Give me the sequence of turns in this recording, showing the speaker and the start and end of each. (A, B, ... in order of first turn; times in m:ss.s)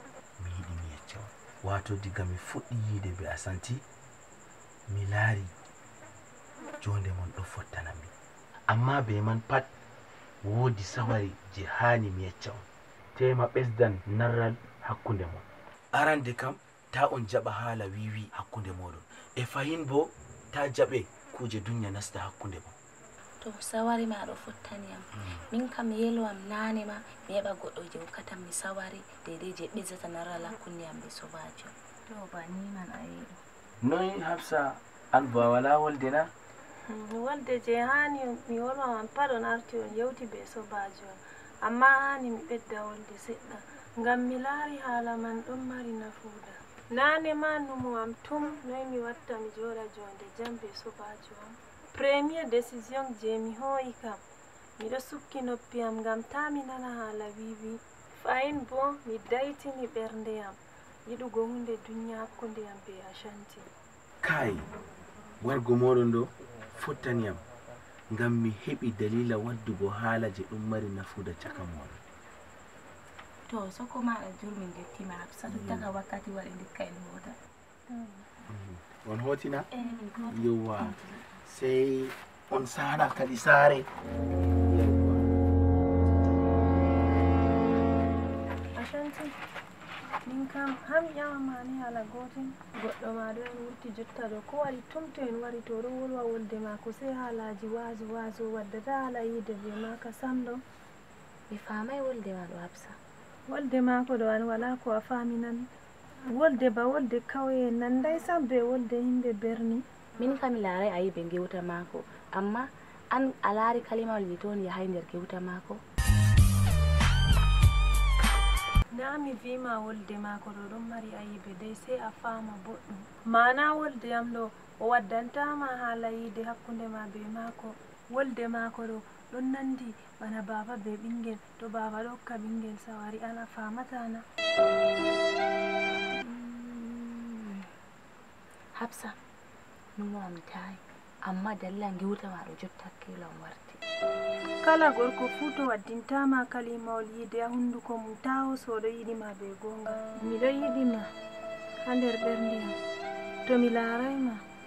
0:00.4-0:03.8 A
0:04.9-0:05.5 A
0:06.8-0:08.1 A
0:08.7-0:09.7 A
0:10.4-0:12.6 A
0:13.2-0:22.7 A
0:23.4-0:33.3 B
0:33.8-0:36.3 A
0:36.9-0:54.2 C
0:54.8-1:03.7 C
1:04.2-1:04.7 A
1:05.4-1:07.4 A
1:08.1-1:12.0 A
1:13.5-1:17.4 B
1:15.5-1:15.9 A
1:17.9-1:18.2 C
1:18.5-1:19.7 A
1:19.7-1:21.3 B
1:20.3-1:23.9 A
1:24.6-1:25.3 A
1:28.7-1:29.4 C
1:30.3-1:40.6 C
1:41.5-1:43.0 B
1:43.5-1:45.7 C
1:46.3-1:49.8 C
1:50.2-1:55.8 B
1:58.9-2:14.2 C
2:16.1-2:17.7 B
2:18.8-2:19.2 B
2:20.0-2:23.8 B
2:24.6-2:31.1 C
2:31.8-2:32.8 C
2:33.5-2:34.4 C